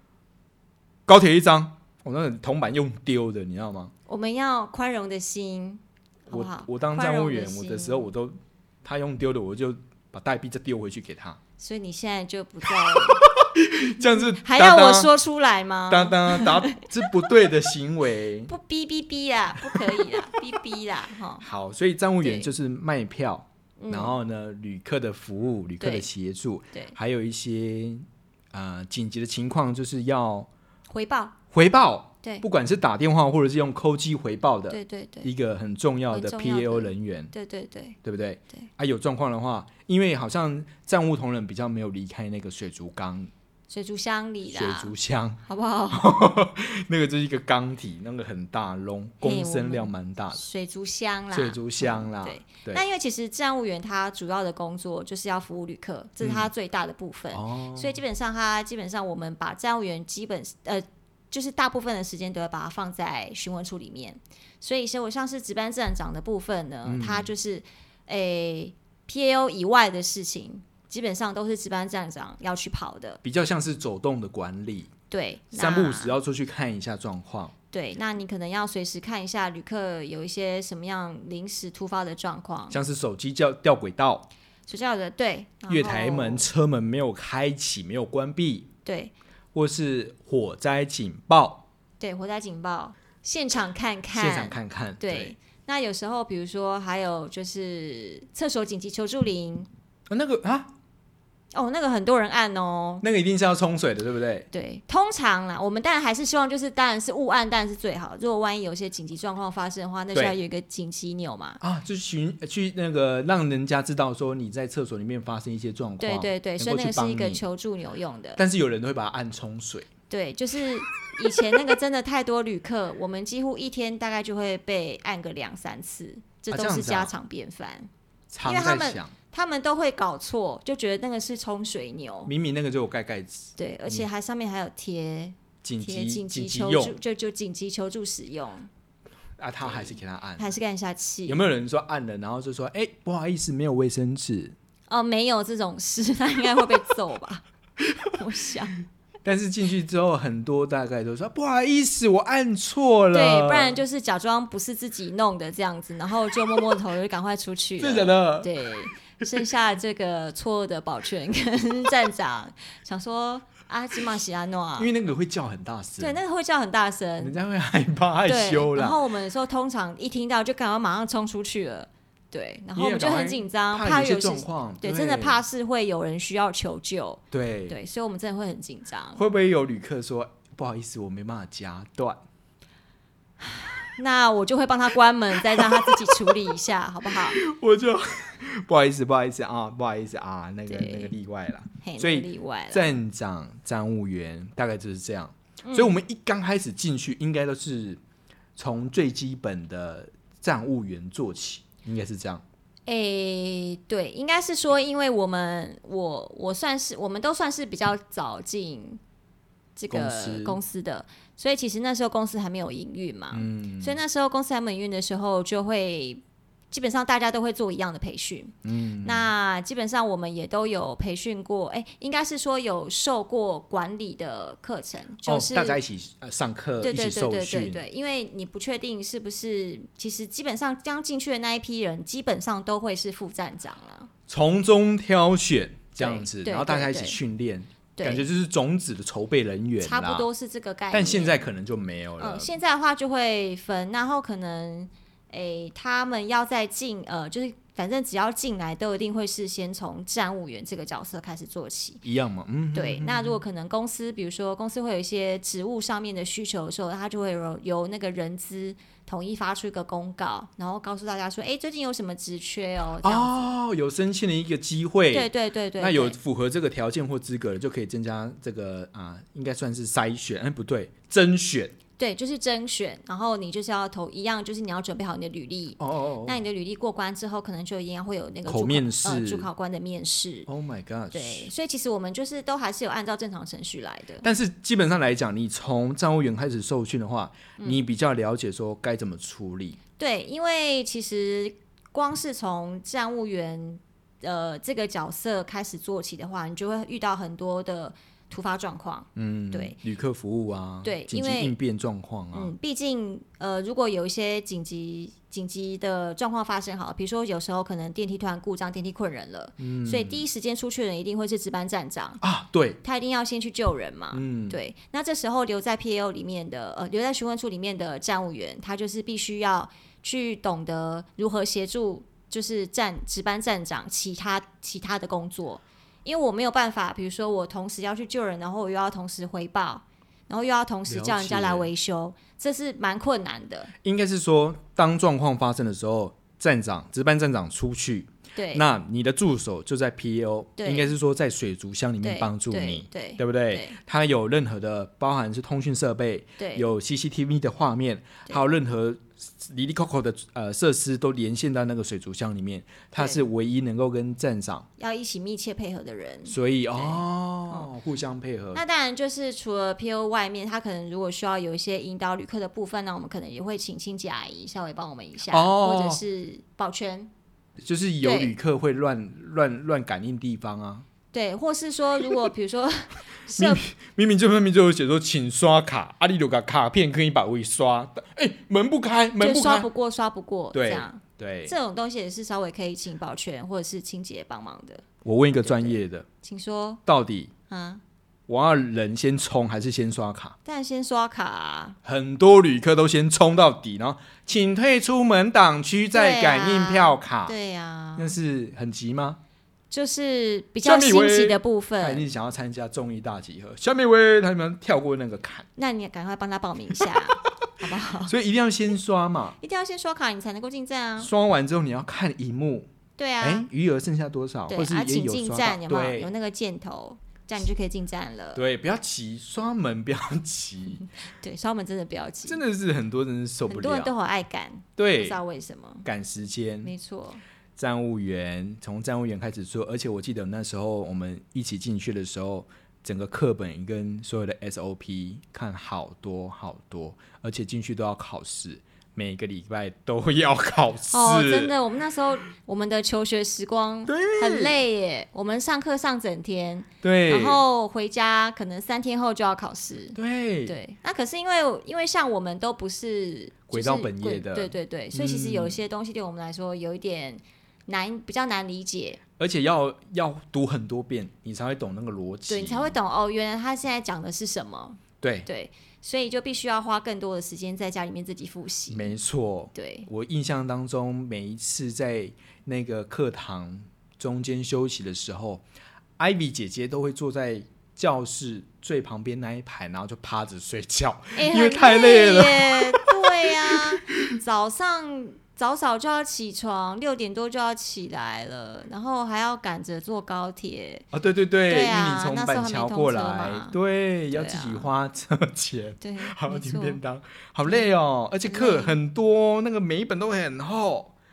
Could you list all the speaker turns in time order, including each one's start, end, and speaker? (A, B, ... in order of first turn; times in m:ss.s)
0:01.1-0:03.9 A
0:04.1-0:08.1 B
0:06.3-0:11.4 A
0:11.6-0:13.2 B
0:12.9-0:15.1 A
0:14.4-0:17.2 B
0:15.9-0:18.5 A
0:18.5-0:21.4 B
0:19.7-0:20.4 A
0:21.4-0:30.5 A
0:22.2-0:22.5 B
0:23.8-0:24.2 B
0:25.8-0:26.1 B
0:30.9-0:31.4 B
0:31.5-0:37.3 A
0:34.7-0:35.3 B
0:36.1-0:38.0 B
0:38.0-0:43.3 A
0:43.7-0:44.9 B
0:44.4-0:45.4 A
0:45.4-0:46.2 B
0:45.9-0:50.4 A
0:49.2-1:13.2 B
0:51.3-0:52.8 A
0:56.2-0:56.5 A
0:57.3-0:58.0 A
1:06.8-1:07.3 A
1:13.2-1:14.9 A
1:15.1-1:16.2 B
1:15.5-1:17.5 A
1:17.7-1:22.8 B
1:22.7-1:24.3 A
1:24.7-1:26.5 B
1:25.7-1:28.7 A
1:28.8-1:29.1 B
1:29.5-1:31.6 A
1:32.0-1:39.7 B
1:34.1-1:35.3 A
1:40.1-1:40.7 A
1:41.5-1:43.0 B
1:43.0-1:44.5 A
1:44.5-1:51.6 B
1:51.6-1:57.4 A
1:56.0-1:58.4 B
1:58.4-1:59.9 A
2:00.1-2:07.9 B
2:06.5-2:07.1 A
2:08.3-2:09.1 A
2:08.4-2:12.3 B
2:12.2-2:14.0 A
2:13.6-2:18.7 B
2:15.6-2:17.0 A
2:19.4-2:20.5 A
2:19.7-2:21.4 B
2:21.3-2:24.5 A
2:24.9-2:27.4 B
2:28.1-2:28.8 B
2:29.2-2:33.8 A
2:33.1-2:44.9 B
2:37.8-2:38.5 A
2:44.8-2:46.2 A
2:46.0-2:47.4 B
2:47.2-2:49.0 A
2:48.3-2:59.2 B
2:52.8-2:55.4 A
2:57.3-2:57.8 A
2:59.2-3:02.2 A
3:03.4-3:07.4 B
3:05.3-3:06.4 A
3:07.1-3:18.0 A
3:10.7-3:11.1 B
3:11.8-3:12.9 B
3:15.6-3:16.0 B
3:18.6-3:22.4 A
3:22.9-3:29.0 B
3:29.8-3:45.8 B
3:29.9-3:30.6 A
3:33.3-3:34.0 A
3:38.6-3:39.3 A
3:45.2-3:47.8 A
3:46.8-3:54.1 B
3:54.3-4:00.3 A
3:56.0-3:57.2 B
3:58.0-3:58.2 B
3:59.8-4:01.4 B
4:00.9-4:02.5 A
4:02.2-4:12.0 B
4:12.0-4:13.4 A
4:12.7-4:23.5 B
4:23.0-4:31.7 A
4:25.1-4:26.2 B
4:32.0-4:40.5 B
4:35.8-4:36.4 A
4:38.4-4:39.5 A
4:40.5-4:41.5 A
4:41.1-4:44.2 B
4:44.2-4:49.8 A
4:47.6-4:47.8 B
4:50.0-4:59.8 B
4:59.2-5:02.5 A
5:00.8-5:01.5 B
5:02.3-5:12.2 B
5:09.6-5:10.2 A
5:12.2-5:12.8 A
5:12.8-5:33.7 B
5:14.1-5:14.6 A
5:30.9-5:31.7 A
5:33.8-5:54.7 A
5:38.4-5:38.6 B
5:40.6-5:40.9 B
5:42.0-5:43.8 B
5:46.4-5:46.6 B
5:53.0-5:53.2 B
5:54.8-5:57.7 B
5:56.3-5:58.6 A
5:58.5-6:07.1 B
6:05.3-6:06.0 A
6:07.6-6:10.8 A
6:08.0-6:08.3 B
6:11.1-6:13.6 B
6:13.3-6:19.7 A
6:19.2-6:24.8 B
6:20.5-6:21.5 A
6:25.0-6:26.0 A
6:25.4-6:26.8 B
6:26.8-6:27.3 A
6:27.5-6:27.8 B
6:28.3-6:30.4 A
6:30.4-6:31.8 B
6:31.8-6:37.3 A
6:35.9-6:38.2 B
6:38.0-6:39.2 A
6:39.7-6:42.0 B
6:40.6-6:45.5 A
6:45.6-6:48.1 B
6:48.0-6:49.4 A
6:49.4-6:51.1 B
6:51.0-6:52.7 A
6:53.0-6:53.5 B
6:53.2-6:56.1 A
6:54.5-6:58.4 B
6:58.3-7:00.8 A
7:01.1-7:02.4 B
7:02.2-7:03.9 A
7:03.5-7:05.8 B
7:04.8-7:05.2 A
7:05.8-7:06.7 A
7:06.6-7:07.2 B
7:07.6-7:21.5 A
7:20.9-7:39.0 B
7:23.9-7:24.6 A
7:26.8-7:27.4 A
7:29.9-7:30.6 A
7:33.5-7:35.6 A
7:39.2-7:42.8 A
7:42.3-7:48.9 B
7:45.0-7:45.3 A
7:48.7-7:55.4 A
7:49.5-7:49.9 B
7:56.0-8:04.2 A
8:01.1-8:10.8 B
8:10.9-8:20.9 A
8:11.5-8:13.6 B
8:14.1-8:14.7 B
8:15.8-8:16.8 B
8:18.2-8:18.8 B